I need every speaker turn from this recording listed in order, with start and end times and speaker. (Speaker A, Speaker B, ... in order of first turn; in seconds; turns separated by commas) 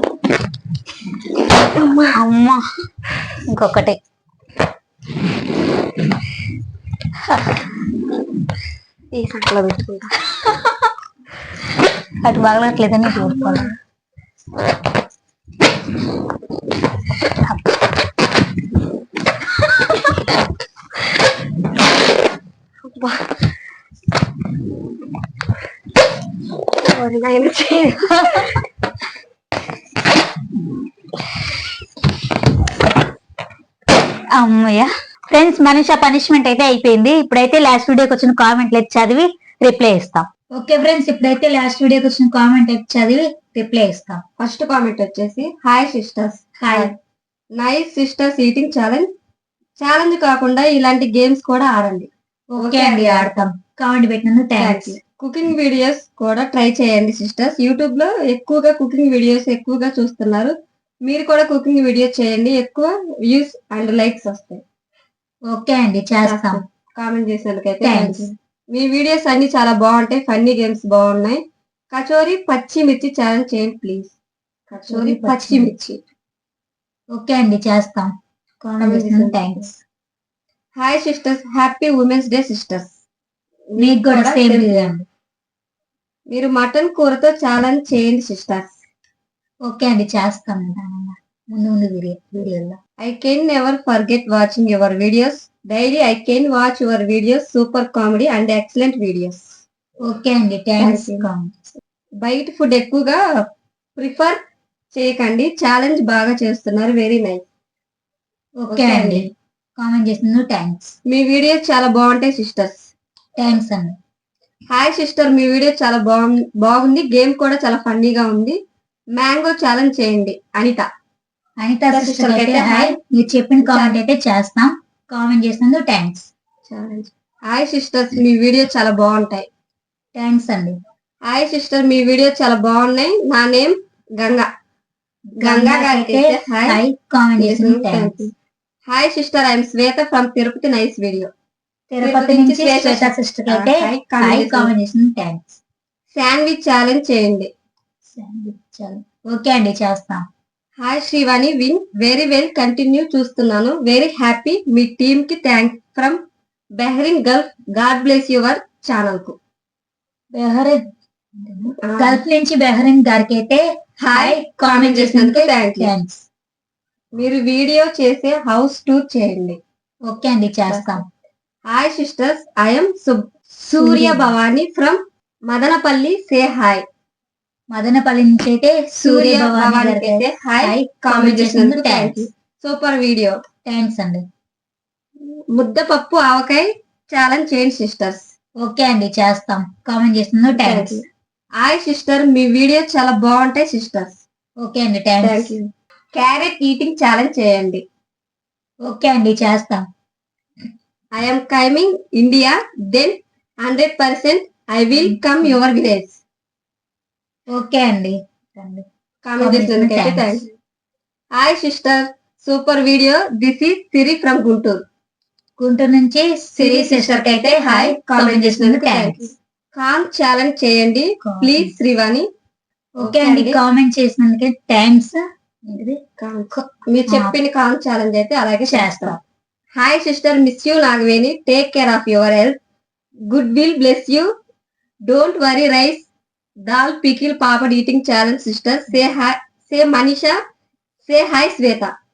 Speaker A: 1.8-2.1, Speaker B: 2.1-2.6, Speaker B: 3.5-4.0, Speaker B: 7.3-7.6, Speaker A: 9.1-10.2, Speaker B: 12.2-13.7, Speaker A: 22.9-23.1, Speaker A: 26.8-28.2, Speaker B: 28.1-28.4, Speaker B: 34.3-44.2, Speaker A: 44.4-46.9, Speaker B: 46.6-46.9, Speaker A: 47.6-49.1, Speaker A: 49.8-53.5, Speaker B: 52.5-55.0, Speaker A: 54.6-60.5, Speaker A: 61.0-64.6, Speaker B: 65.5-66.6, Speaker A: 66.2-74.1, Speaker B: 67.8-68.3, Speaker A: 74.7-76.0, Speaker B: 74.9-75.7, Speaker B: 77.1-78.1, Speaker B: 78.6-79.8, Speaker A: 78.8-79.6, Speaker A: 80.8-82.9, Speaker A: 83.7-84.9, Speaker B: 83.8-85.0, Speaker A: 86.3-88.8, Speaker B: 89.7-92.8, Speaker A: 93.0-99.5, Speaker B: 100.0-101.6, Speaker A: 100.8-101.2, Speaker A: 102.2-103.2, Speaker A: 104.0-104.4, Speaker A: 104.9-107.4, Speaker B: 108.6-110.9, Speaker A: 108.7-109.3, Speaker A: 111.1-112.9, Speaker B: 113.4-113.9, Speaker A: 114.7-118.6, Speaker A: 119.2-120.8, Speaker B: 121.6-126.3, Speaker A: 121.9-123.0, Speaker A: 123.6-124.0, Speaker A: 126.7-129.4, Speaker B: 130.1-130.8, Speaker A: 131.3-134.5, Speaker B: 135.3-138.3, Speaker A: 135.4-136.8, Speaker A: 137.4-138.3, Speaker A: 138.9-141.3, Speaker B: 141.9-145.6, Speaker A: 142.0-144.7, Speaker A: 146.1-147.5, Speaker B: 148.1-150.2, Speaker A: 150.8-156.2, Speaker A: 156.8-159.3, Speaker B: 160.3-160.8, Speaker B: 161.4-163.6, Speaker A: 161.8-162.2, Speaker A: 164.0-165.9, Speaker B: 164.1-166.2, Speaker A: 167.1-169.6, Speaker B: 170.1-171.0, Speaker A: 170.7-171.0, Speaker A: 171.7-176.8, Speaker B: 173.8-174.3, Speaker B: 177.7-182.3, Speaker A: 179.0-183.4, Speaker B: 183.7-184.2, Speaker A: 185.5-188.2, Speaker B: 188.6-191.0, Speaker A: 190.5-191.0, Speaker A: 191.6-194.2, Speaker B: 194.6-195.5, Speaker A: 195.2-197.8, Speaker B: 198.8-199.8, Speaker A: 201.1-206.2, Speaker B: 205.0-205.6, Speaker B: 207.5-208.8, Speaker A: 209.2-210.4, Speaker B: 209.4-210.4, Speaker A: 211.3-214.8, Speaker B: 215.6-219.3, Speaker A: 216.6-222.2, Speaker B: 221.2-221.7, Speaker A: 223.0-223.6, Speaker B: 223.0-226.0, Speaker A: 226.2-229.2, Speaker B: 226.5-227.3, Speaker B: 228.7-229.2, Speaker A: 229.7-232.6, Speaker A: 233.3-234.3, Speaker A: 235.1-236.1, Speaker A: 236.7-240.3, Speaker A: 241.1-241.9